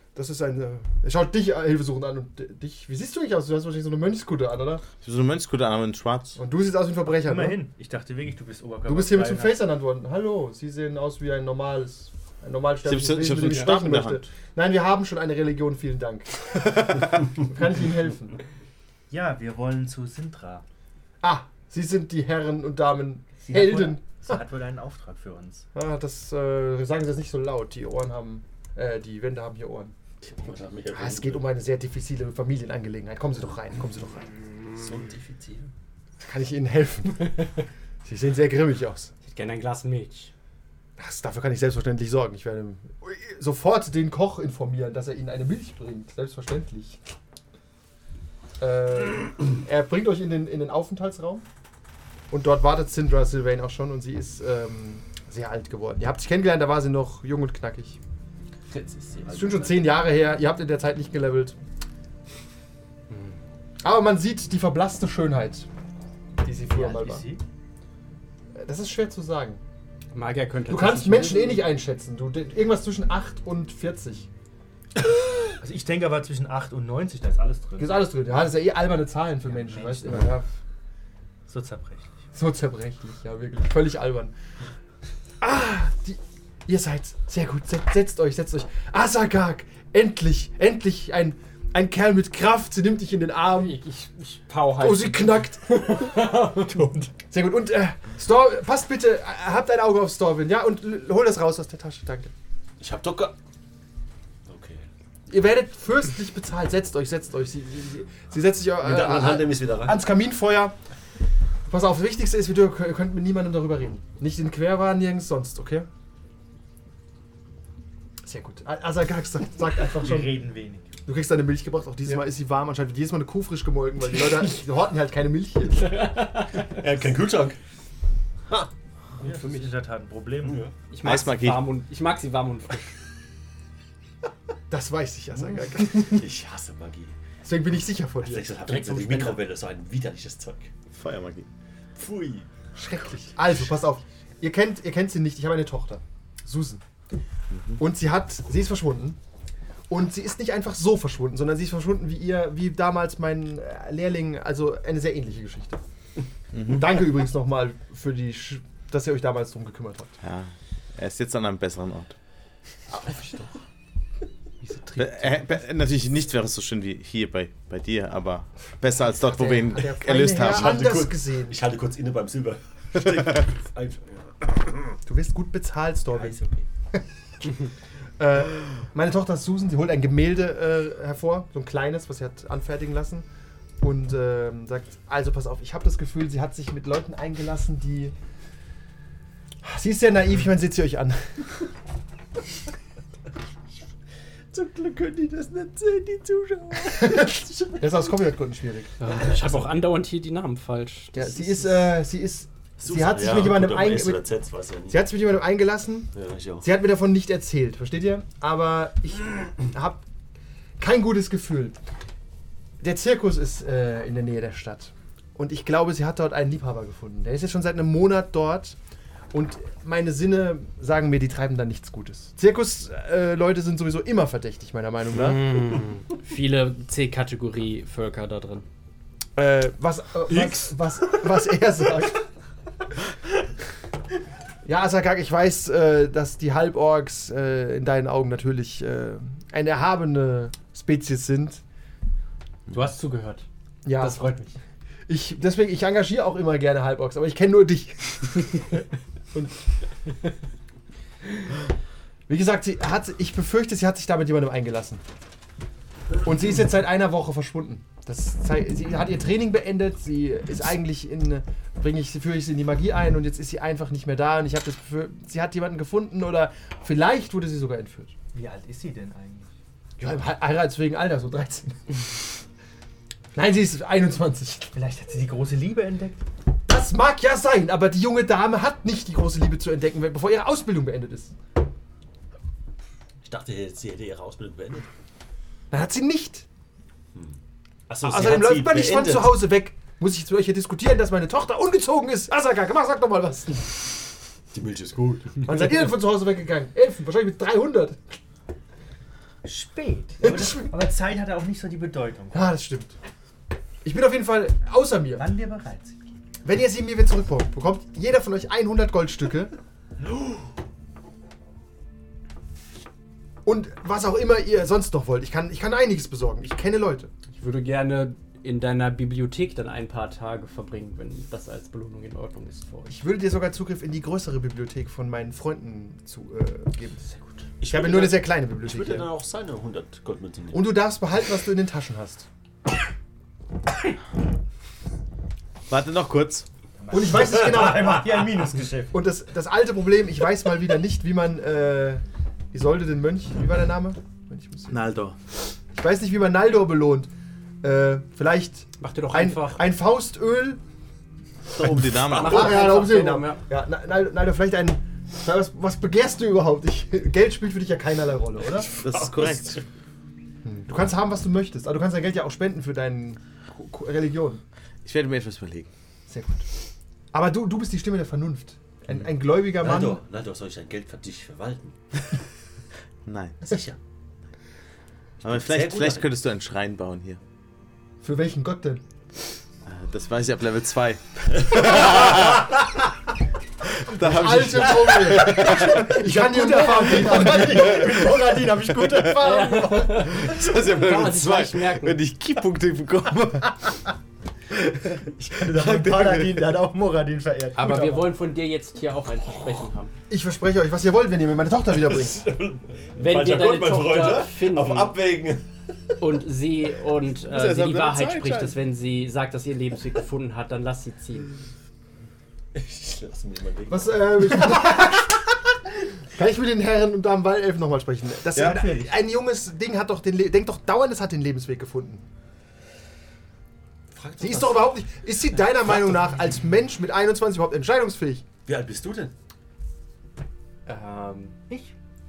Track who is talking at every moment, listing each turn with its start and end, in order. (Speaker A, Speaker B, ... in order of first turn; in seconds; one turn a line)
Speaker A: 0.1-4.8
Speaker B: 5.0-6.4
Speaker A: 6.4-7.6
Speaker C: 7.2-9.7
Speaker A: 8.9-18.4
Speaker B: 12.8-14.2
Speaker C: 19.1-20.6
Speaker A: 21.2-24.3
Speaker C: 23.4-25.7
Speaker A: 25.7-29.9
Speaker D: 30.2-31.5
Speaker A: 30.9-34.3
Speaker D: 34.8-35.7
Speaker A: 36.2-39.1
Speaker E: 39.2-40.3
Speaker A: 41.0-47.0
Speaker A: 48.6-51.5
Speaker A: 52.3-58.0
Speaker C: 58.8-59.3
Speaker D: 58.8-59.6
Speaker A: 59.3-61.6
Speaker A: 63.8-65.7
Speaker A: 66.4-67.3
Speaker C: 66.7-67.4
Speaker A: 68.5-69.6
Speaker E: 70.1-71.7
Speaker A: 70.7-74.3
Speaker C: 75.6-78.1
Speaker A: 77.8-80.5
Speaker C: 79.5-80.3
Speaker C: 81.5-82.2
Speaker A: 82.3-84.3
Speaker A: 85.4-93.8
Speaker E: 93.6-97.1
Speaker A: 94.8-96.2
Speaker A: 97.3-102.3
Speaker D: 102.8-103.3
Speaker D: 104.5-104.9
Speaker A: 105.3-110.8
Speaker D: 108.8-110.1
Speaker A: 111.7-115.9
Speaker A: 118.2-120.4
Speaker C: 119.9-120.9
Speaker A: 121.1-126.2
Speaker D: 126.7-127.6
Speaker C: 129.2-130.7
Speaker E: 129.2-129.7
Speaker D: 130.4-130.7
Speaker E: 130.9-132.9
Speaker B: 131.0-131.7
Speaker A: 134.7-136.3
Speaker D: 135.8-137.1
Speaker A: 137.4-138.5
Speaker D: 138.2-140.7
Speaker E: 138.7-139.4
Speaker B: 140.9-141.5
Speaker D: 142.0-142.5
Speaker A: 142.8-146.8
Speaker B: 147.5-147.8
Speaker A: 147.8-149.2
Speaker A: 149.9-155.8
Speaker B: 156.6-156.8
Speaker A: 156.6-160.2
Speaker B: 160.2-162.2
Speaker A: 162.9-163.5
Speaker B: 165.0-170.9
Speaker A: 169.2-171.6
Speaker D: 170.4-175.0
Speaker A: 175.1-176.4
Speaker D: 176.2-176.6
Speaker A: 178.2-183.3
Speaker A: 183.8-188.1
Speaker A: 189.6-191.6
Speaker D: 194.6-196.7
Speaker A: 196.8-199.0
Speaker E: 199.0-201.7
Speaker A: 201.1-204.3
Speaker D: 202.8-205.1
Speaker A: 204.9-210.0
Speaker D: 206.2-206.7
Speaker A: 210.8-211.8
Speaker A: 212.8-218.8
Speaker A: 219.3-225.6
Speaker E: 225.2-228.7
Speaker A: 229.4-232.2
Speaker D: 230.3-230.7
Speaker A: 234.7-241.6
Speaker E: 242.7-244.6
Speaker A: 243.8-244.3
Speaker A: 245.1-248.7
Speaker A: 252.3-255.0
Speaker A: 256.2-268.1
Speaker C: 268.3-269.5
Speaker A: 270.0-272.1
Speaker A: 273.3-274.7
Speaker C: 274.7-276.2
Speaker A: 276.7-281.3
Speaker D: 283.2-284.9
Speaker A: 285.7-286.5
Speaker D: 287.9-289.4
Speaker A: 288.0-293.8
Speaker D: 294.5-295.7
Speaker A: 295.4-298.0
Speaker C: 299.4-302.5
Speaker A: 300.2-300.7
Speaker A: 302.3-302.9
Speaker A: 303.8-305.3
Speaker C: 305.2-306.0
Speaker A: 306.4-309.5
Speaker C: 310.0-310.4
Speaker A: 313.4-317.1
Speaker E: 317.3-322.9
Speaker A: 322.9-327.0
Speaker D: 327.6-330.9
Speaker A: 327.7-329.1
Speaker A: 330.5-332.3
Speaker B: 335.7-336.5
Speaker C: 336.8-339.0
Speaker A: 336.9-344.8
Speaker D: 337.2-338.1
Speaker B: 344.7-345.2
Speaker A: 345.8-347.1
Speaker A: 347.6-350.6
Speaker E: 348.8-349.7
Speaker B: 351.5-352.7
Speaker D: 351.6-352.4
Speaker E: 352.1-353.4
Speaker A: 352.2-358.7
Speaker D: 358.6-359.6
Speaker B: 358.8-359.6
Speaker A: 360.4-364.4
Speaker B: 364.9-365.7
Speaker A: 366.1-366.5
Speaker A: 367.1-370.0
Speaker D: 369.6-371.8
Speaker B: 373.1-373.4
Speaker D: 373.4-373.8
Speaker D: 375.2-376.1
Speaker B: 375.2-377.2
Speaker A: 378.0-378.8
Speaker B: 379.6-382.6
Speaker B: 383.7-388.2
Speaker A: 383.9-390.1
Speaker E: 386.2-387.6
Speaker B: 388.7-389.1
Speaker E: 389.2-392.0
Speaker B: 390.0-393.8
Speaker B: 394.8-396.4
Speaker C: 395.2-398.1
Speaker E: 397.6-399.9
Speaker A: 400.1-402.2
Speaker D: 401.8-405.5
Speaker E: 403.0-405.0
Speaker E: 406.0-411.3
Speaker B: 407.3-408.6
Speaker D: 412.5-414.3
Speaker A: 413.7-415.4
Speaker A: 416.1-422.0
Speaker B: 418.4-418.6
Speaker C: 418.4-418.9
Speaker D: 423.9-424.7
Speaker A: 424.2-428.2
Speaker D: 428.5-429.1
Speaker E: 430.7-431.4